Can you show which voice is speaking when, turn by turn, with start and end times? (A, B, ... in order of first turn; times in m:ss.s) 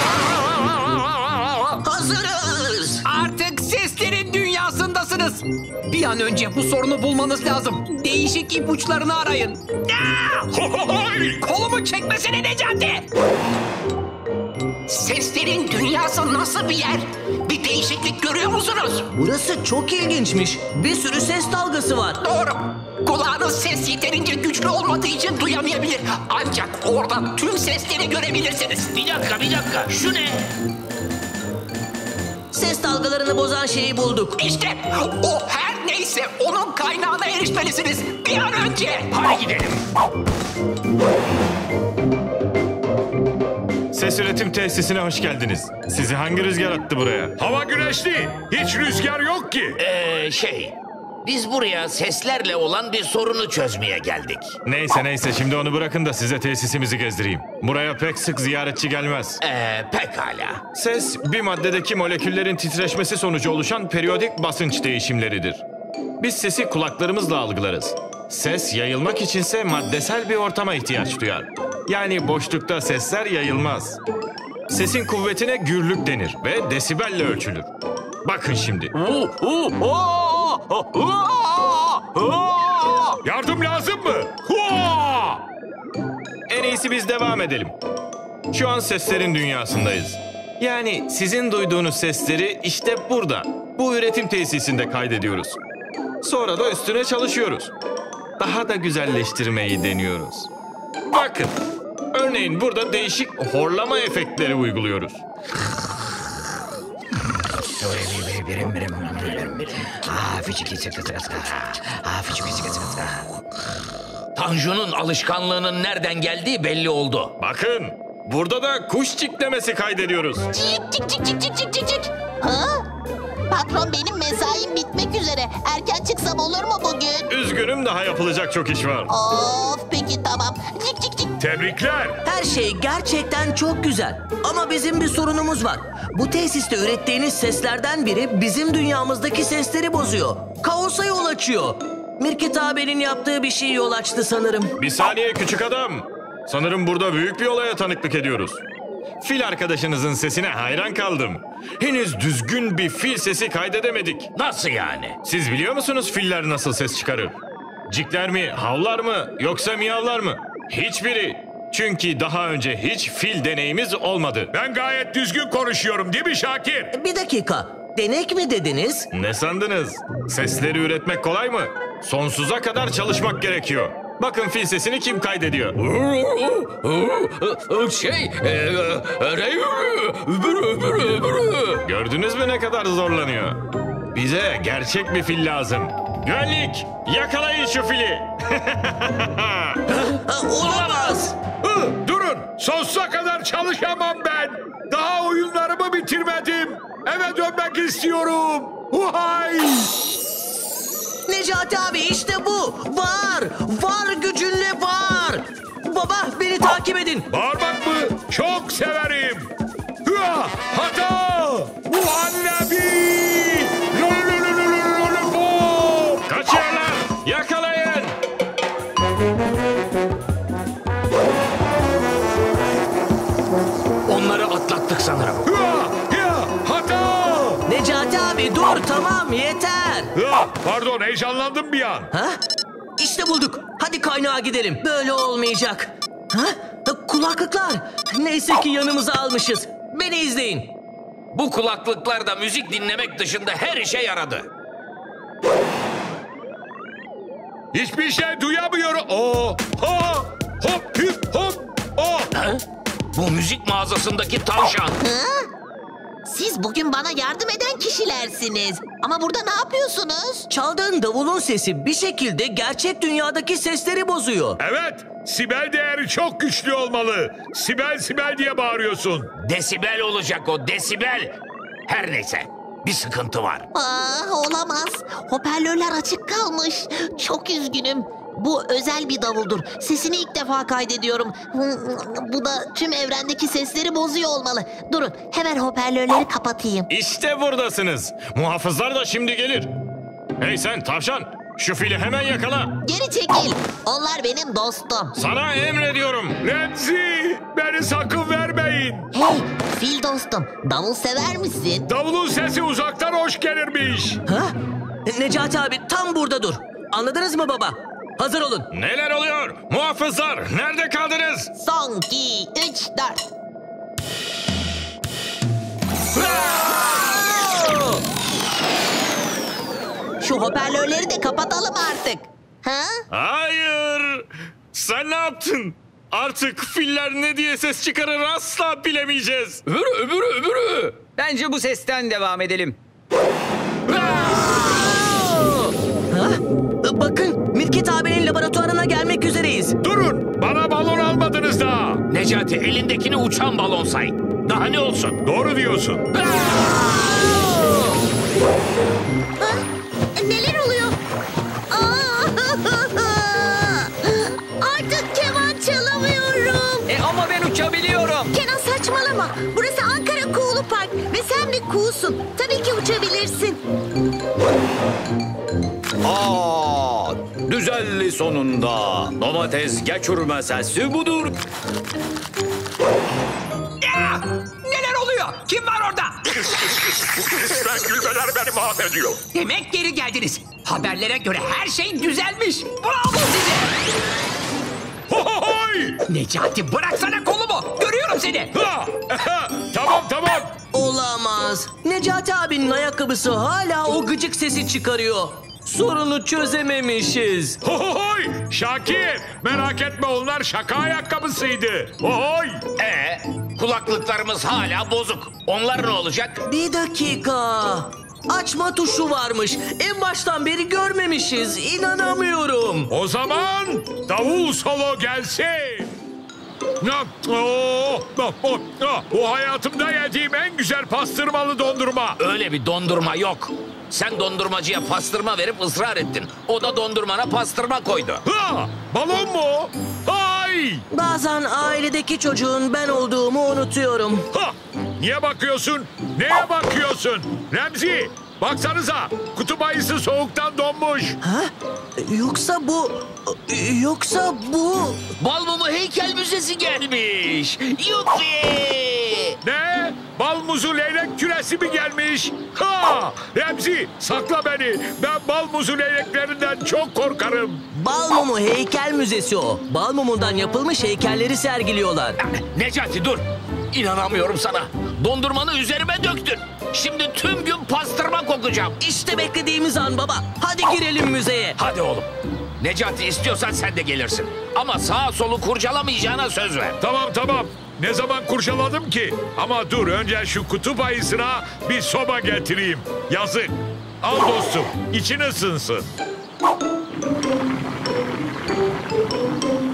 0:00.5-0:01.8 A
0:01.8-0:03.0 B
0:03.0-0:10.5 C
0:10.6-0:11.1 A
0:11.4-0:13.1 C
0:14.9-0:19.1 C
0:19.1-0:22.2 B
0:22.2-0:28.9 C
0:28.9-0:30.4 D
0:32.5-0:34.4 B
0:34.4-0:39.1 C
0:39.1-0:39.8 D
0:43.9-0:47.4 E
0:47.4-0:49.8 A
0:49.8-0:54.6 D
0:54.6-0:59.4 E
0:59.4-1:00.6 D
1:00.7-1:05.6 E
1:06.2-1:14.0 E
1:14.7-1:17.7 E
1:18.2-1:18.9 E
1:19.0-1:23.1 F
1:23.2-1:25.4 A
1:26.5-1:27.7 E
1:28.5-1:35.6 E
1:36.2-1:37.7 E
1:38.4-1:40.5 E
1:41.1-1:41.6 E
1:42.1-1:45.2 E
1:47.7-1:53.2 D
1:54.4-1:57.3 D
1:57.4-2:00.5 E
2:00.5-2:02.8 G
2:03.5-2:07.3 G
2:07.3-2:09.1 E
2:09.1-2:11.3 G
2:11.4-2:12.2 A
2:12.2-2:24.8 B
2:24.8-2:28.6 E
2:29.2-2:34.3 E
2:34.4-2:35.2 D
2:35.2-2:44.5 E
2:44.5-2:46.9 A
2:46.9-2:49.1 B
2:49.1-2:55.8 E
3:01.8-3:03.6 E
3:04.1-3:09.8 E
3:09.9-3:11.4 B
3:11.6-3:19.9 A
3:21.3-3:27.3 B
3:27.3-3:29.5 A
3:30.0-3:36.2 A
3:36.3-3:38.2 E
3:44.1-3:45.4 D
3:45.4-3:47.6 A
3:47.7-3:50.1 B
3:50.2-3:52.1 A
3:52.1-3:52.4 B
3:53.0-4:00.7 B
4:01.3-4:04.5 D
4:07.7-4:12.3 A
4:12.3-4:12.6 D
4:13.1-4:15.0 D
4:15.0-4:15.3 G
4:16.3-4:20.5 G
4:20.5-4:24.6 B
4:24.6-4:29.3 A
4:29.4-4:31.3 D
4:31.9-4:33.7 D
4:33.7-4:46.9 G
4:46.9-4:49.7 E
4:50.4-4:52.7 E
4:52.8-4:55.1 G
4:55.2-4:56.4 E
4:56.4-4:59.1 A
4:59.1-5:01.8 G
5:01.9-5:04.2 A
5:04.3-5:04.5 B
5:05.1-5:08.7 B
5:08.7-5:11.5 E
5:11.6-5:13.2 G
5:20.2-5:22.9 G
5:23.1-5:29.6 E
5:29.7-5:32.8 F
5:33.9-5:35.5 B
5:36.1-5:39.8 B
5:39.8-5:42.0 A
5:42.1-5:45.2 D
5:45.2-5:46.1 A
5:46.1-5:46.6 D
5:46.7-5:47.8 H
5:50.2-5:51.0 H
5:51.7-5:56.9 H
5:56.9-5:58.3 F
5:58.3-6:03.6 H
6:06.0-6:11.3 F
6:13.8-6:16.2 C
6:17.2-6:19.2 A
6:19.3-6:23.7 C
6:25.1-6:26.0 A
6:26.1-6:28.5 C
6:28.5-6:30.6 A
6:30.7-6:37.6 B
6:37.6-6:42.6 A
6:42.8-6:46.4 D
6:46.5-6:52.9 B
6:52.9-6:55.9 A
6:56.8-7:02.2 A
7:02.2-7:08.2 D
7:08.2-7:10.8 A
7:10.9-7:14.3 B
7:14.3-7:21.2 A
7:21.2-7:25.0 B
7:25.2-7:29.4 D
7:29.4-7:37.7 A
7:37.7-7:42.2 B
7:42.2-7:48.8 D
7:48.8-7:51.6 B
7:51.6-7:56.8 D
7:56.8-8:05.9 A